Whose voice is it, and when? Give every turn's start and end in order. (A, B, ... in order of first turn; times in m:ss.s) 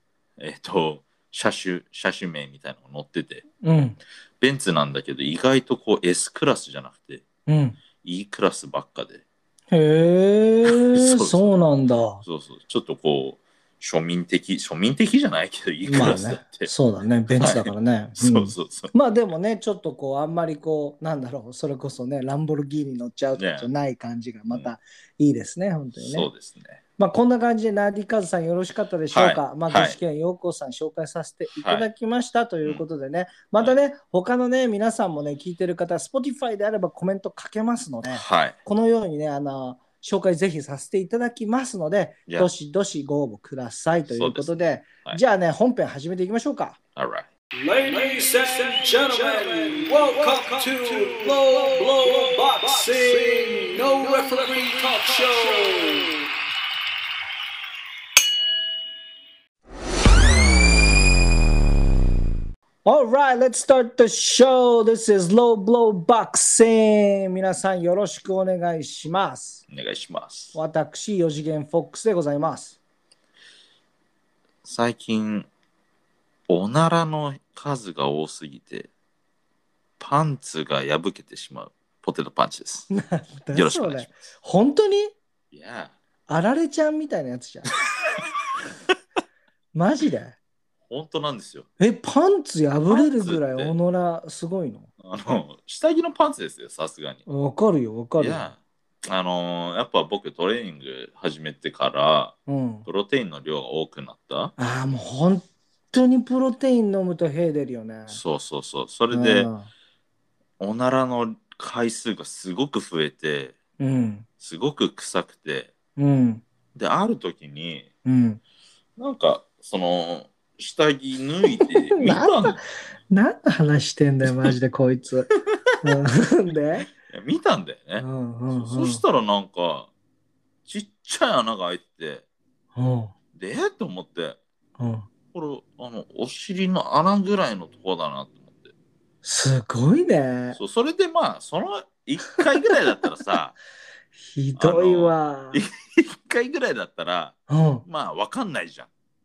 0:00.4-0:03.4 A
0:03.6-0:04.0 B
0:04.4-0:07.2 A
0:07.5-0:07.8 B
0:08.0-0:09.2 A
0:09.7-0:12.2 B
0:10.6-0:11.4 A
0:12.2-0:16.7 A
0:15.8-0:26.3 B
0:17.4-0:18.9 A
0:23.4-0:23.7 A
0:26.0-0:26.8 A
0:27.0-0:46.8 B
0:29.1-0:30.0 A
0:31.6-0:31.9 A
0:38.1-0:38.6 A
0:44.1-0:45.2 A
0:47.0-0:47.3 A
0:47.6-0:56.2 C
1:02.8-1:09.6 B
1:09.7-1:10.5 A
1:10.5-1:12.8 B
1:14.6-1:15.5 A
1:16.5-1:18.9 A
1:20.0-1:22.9 A
1:22.9-1:25.1 B
1:23.5-1:24.1 A
1:25.5-1:26.0 A
1:26.3-1:27.7 B
1:29.7-1:30.4 B
1:30.9-1:31.7 A
1:31.8-1:34.9 B
1:32.9-1:33.7 A
1:35.0-1:37.2 A
1:37.2-1:38.5 B
1:38.2-1:44.5 A
1:42.5-1:42.8 B
1:44.6-1:48.2 B
1:48.1-1:49.5 A
1:49.1-1:49.7 B
1:50.6-1:53.6 A
1:53.8-1:54.3 B
1:54.4-1:55.7 A
1:56.0-1:56.4 B
1:56.7-1:57.9 A
1:58.0-1:58.4 B
1:59.0-2:02.6 A
2:01.9-2:05.3 B
2:05.8-2:06.9 B
2:07.0-2:09.9 A
2:08.0-2:09.0 B
2:10.6-2:12.2 A
2:12.7-2:13.1 B
2:13.3-2:14.4 A
2:14.8-2:15.1 B
2:15.3-2:18.7 A
2:19.2-2:20.6 B
2:20.5-2:23.5 A
2:24.2-2:25.6 B
2:24.6-2:28.9 A
2:27.5-2:27.8 B